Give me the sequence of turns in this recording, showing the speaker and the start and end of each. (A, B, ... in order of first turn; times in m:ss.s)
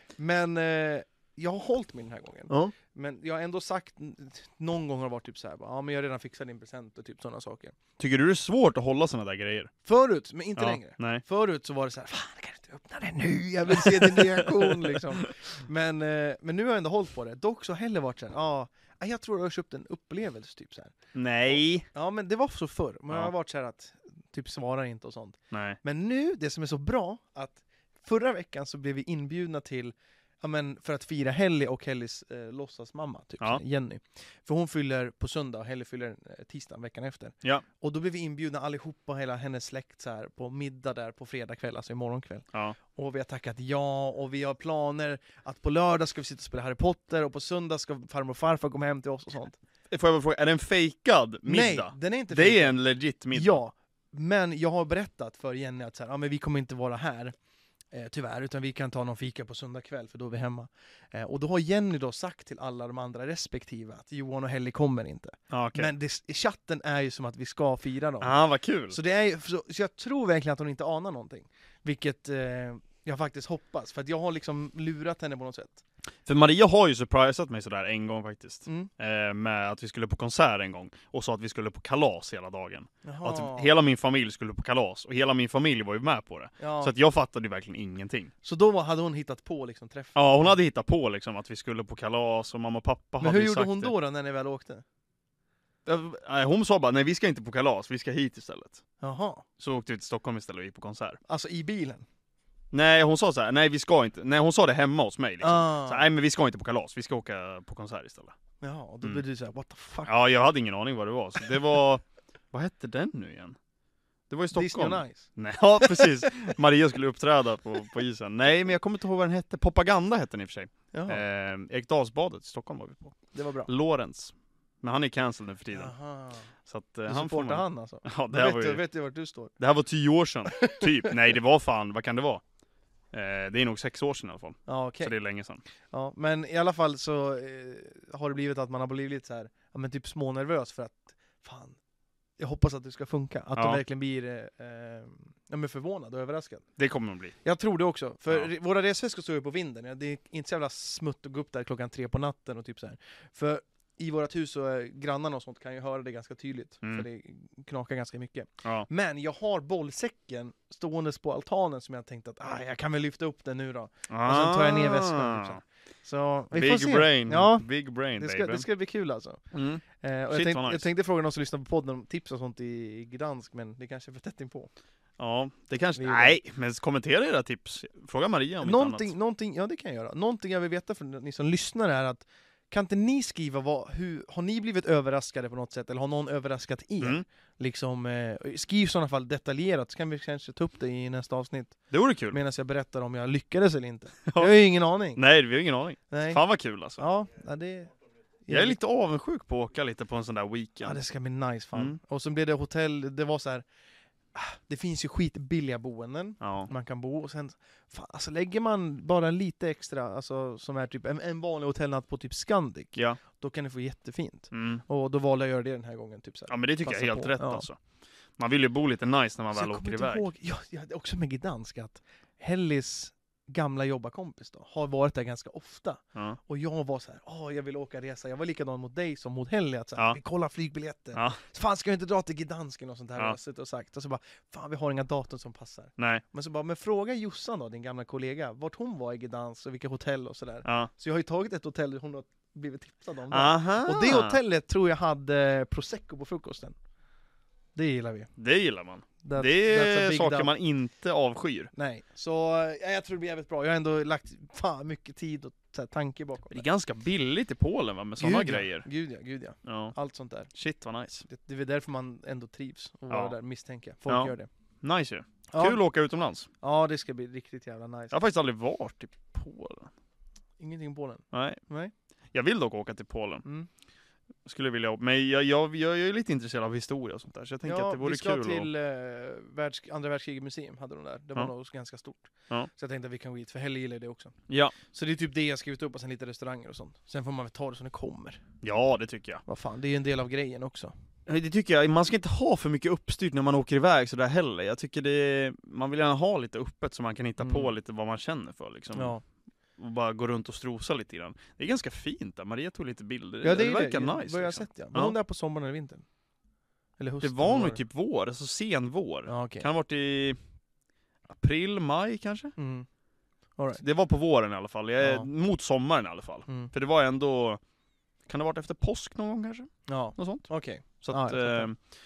0:00.2-0:07.8 A
0:02.5-0:02.8 B
0:08.0-0:09.7 B
0:09.8-0:49.6 A
0:10.6-0:11.2 B
0:13.7-0:15.3 B
0:21.1-0:21.9 B
0:25.5-0:25.8 B
0:49.9-0:53.6 B
0:51.4-0:52.8 A
0:53.3-0:57.4 A
0:57.9-1:08.3 A
1:05.5-1:05.9 B
1:08.2-1:09.0 B
1:08.9-1:15.8 A
1:16.3-1:28.3 B
1:18.7-1:18.9 A
1:23.0-1:23.7 A
1:26.6-1:26.9 A
1:28.4-1:30.6 A
1:30.2-1:33.9 B
1:33.2-1:34.8 A
1:35.8-1:38.8 B
1:39.0-1:39.4 A
1:39.6-1:41.2 B
1:41.3-1:42.0 A
1:42.7-1:48.4 B
1:45.4-1:46.1 A
1:48.6-1:50.1 A
1:50.1-1:53.6 B
1:54.3-2:05.9 B
1:54.5-1:55.3 A
1:55.8-1:56.1 A
2:00.9-2:01.2 A
2:03.3-2:03.7 A
2:05.7-2:06.5 A
2:06.6-2:08.8 B
2:07.1-2:09.5 A
2:09.6-2:12.4 B
2:10.5-2:11.2 A
2:13.1-2:15.6 B
2:14.7-2:15.2 A
2:15.9-2:21.8 A
2:22.4-2:26.7 A
2:23.6-2:23.8 B
2:26.8-2:27.4 B
2:27.4-2:49.4 A
2:44.1-2:45.6 B
2:46.5-2:48.6 B
2:49.5-2:50.9 B
2:50.0-2:54.7 A
2:55.2-2:59.1 B
2:56.0-2:56.4 A
2:58.6-3:15.2 A
3:11.9-3:12.4 B
3:14.3-3:14.5 B
3:15.2-3:17.0 B
3:16.1-3:16.4 A
3:17.0-3:17.9 A
3:18.5-3:18.8 A
3:18.5-3:21.0 B
3:20.8-3:23.6 A
3:24.3-3:37.7 A
3:26.4-3:26.7 B
3:34.5-3:34.8 B
3:36.5-3:37.8 B
3:38.4-3:40.3 B
3:39.5-4:06.8 A
3:56.0-3:56.2 B
4:00.6-4:00.9 B
4:03.3-4:04.4 B
4:07.8-4:08.3 A
4:08.4-4:11.7 B
4:09.2-4:10.5 A
4:11.7-4:16.6 A
4:16.5-4:18.9 B
4:18.2-4:20.5 A
4:19.6-4:20.0 B
4:20.5-4:21.2 B
4:21.2-4:24.5 A
4:23.1-4:23.4 B
4:24.1-4:26.5 B
4:25.5-4:25.8 A
4:26.6-4:28.2 A
4:28.1-4:29.9 B
4:30.6-4:31.9 A
4:31.3-4:31.6 B
4:32.3-4:33.4 B
4:34.4-4:38.7 B
4:37.6-4:48.4 A
4:44.5-4:44.8 B
4:48.6-4:49.4 B
4:49.5-4:50.9 A
4:51.3-4:59.2 B
4:57.4-4:57.7 A
4:59.0-4:59.2 A
4:59.8-5:05.2 B
5:03.4-5:06.0 A
5:07.0-5:07.8 A
5:07.2-5:10.4 B
5:09.3-5:09.7 A
5:11.3-5:12.5 B
5:12.6-5:12.9 A
5:13.8-5:17.6 B
5:15.0-5:15.3 A
5:18.3-5:21.8 B
5:19.9-5:21.7 A